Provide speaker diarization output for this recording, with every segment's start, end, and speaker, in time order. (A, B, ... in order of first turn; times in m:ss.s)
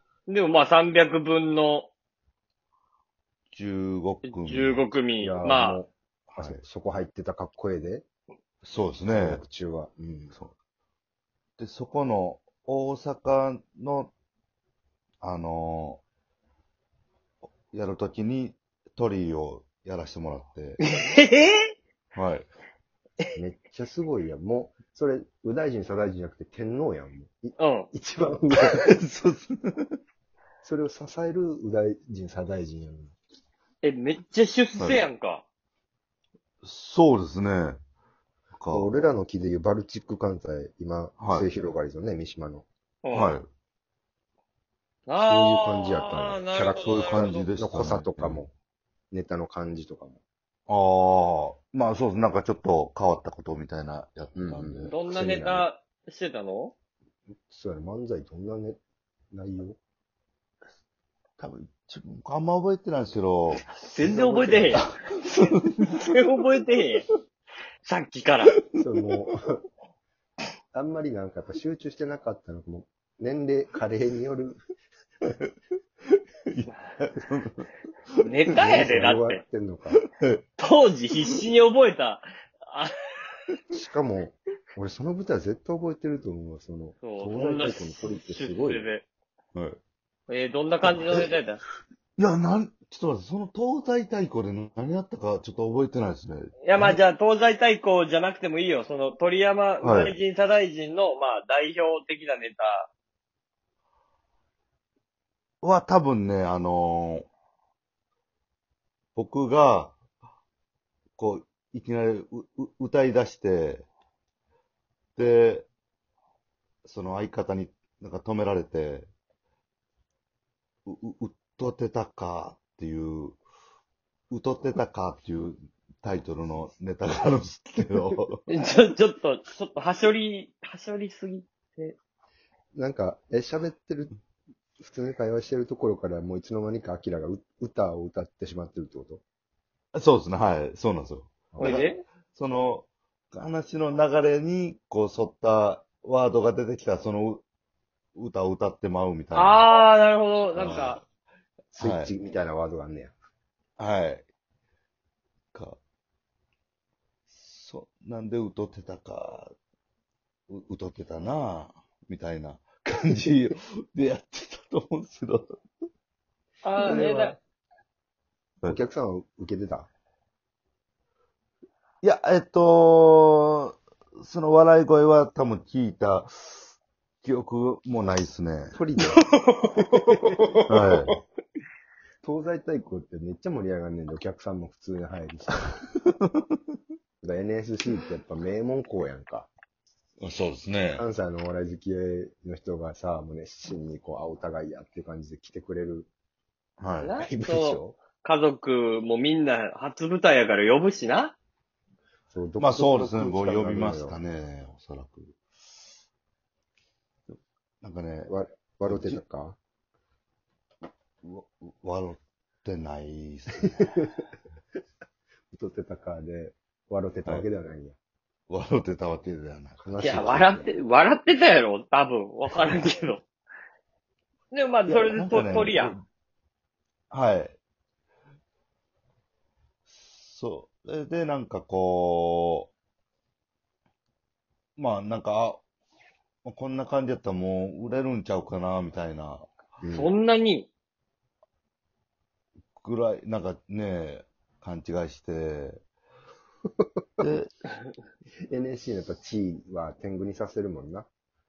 0:00.3-0:01.9 A
0:03.5-0:04.8 B
0:04.2-0:05.8 A
0:05.2-0:08.0 C
0:06.4-0:06.6 B
0:08.6-0:09.4 B
0:09.1-0:10.3 C
0:11.6-0:14.1 B
0:15.2-0:16.0 B
0:17.7-0:20.8 B
0:20.8-0:21.7 A
0:22.1-0:22.5 B
0:23.4-0:28.9 C
0:27.6-0:27.9 A
0:28.5-0:30.0 B
0:30.6-0:33.1 C
0:33.8-0:35.4 A
0:34.8-0:35.1 B
0:36.6-0:37.8 B
0:38.6-0:39.1 B
0:38.7-0:42.6 C
0:41.2-0:41.5 B
0:43.0-0:43.4 A
0:43.1-0:43.5 B
0:45.1-0:47.5 A
0:45.2-0:48.5 C
0:46.8-0:48.4 B
0:49.1-0:50.2 C
0:50.7-0:54.9 B
0:54.3-0:55.7 C
0:54.9-0:56.7 A
0:57.5-0:58.8 C
0:59.3-0:59.8 C
1:01.4-1:05.8 B
1:03.7-1:07.1 A
1:07.8-1:08.5 A
1:08.8-1:09.6 C
1:10.7-1:14.6 C
1:16.5-1:17.7 B
1:18.2-1:19.4 A
1:18.5-1:20.0 C
1:19.9-1:20.4 B
1:20.6-1:23.3 A
1:23.7-1:28.9 C
1:27.0-1:29.0 A
1:30.3-1:31.6 A
1:30.8-1:31.3 B
1:32.2-1:37.0 B
1:36.6-1:42.9 A
1:39.8-1:40.2 B
1:45.6-1:47.3 B
1:49.2-1:50.0 B
1:51.2-1:53.9 B
1:55.2-1:55.7 B
1:56.8-1:59.1 B
2:00.8-2:03.4 B
2:04.3-2:08.4 B
2:08.5-2:12.0 A
2:12.7-2:14.1 C
2:14.8-2:19.2 C
2:19.9-2:27.4 B
2:21.5-2:21.8 C
2:21.6-2:22.0 A
2:28.2-2:29.6 B
2:29.3-2:31.0 A
2:30.5-2:31.0 B
2:31.7-2:33.1 C
2:31.8-2:32.1 B
2:33.8-2:34.2 B
2:35.5-2:35.8 B
2:37.3-2:39.5 B
2:40.5-2:45.6 B
2:46.6-2:47.4 A
2:46.8-2:47.3 C
2:48.6-2:49.9 C
2:52.0-2:58.8 B
2:58.7-2:59.2 C
2:59.0-3:01.1 A
3:00.0-3:00.6 C
3:00.7-3:01.1 B
3:02.2-3:05.8 C
3:07.2-3:09.5 C
3:10.2-3:11.0 B
3:10.9-3:16.1 C
3:16.8-3:17.1 B
3:17.0-3:21.4 A
3:17.2-3:18.0 C
3:22.3-3:24.2 C
3:22.6-3:25.4 B
3:27.3-3:28.3 B
3:28.3-3:29.6 C
3:28.8-3:29.2 B
3:31.2-3:34.1 B
3:33.7-3:34.2 C
3:35.5-3:38.0 C
3:38.5-3:40.4 B
3:39.8-3:40.7 C
3:40.0-3:43.2 A
3:44.5-3:46.0 A
3:45.1-3:46.0 B
3:47.1-3:47.6 B
3:49.9-3:52.7 B
3:54.8-3:55.6 B
3:56.4-3:59.5 B
3:59.8-4:00.1 C
3:59.9-4:00.7 A
4:02.8-4:05.8 B
4:07.2-4:07.5 B
4:08.5-4:11.1 C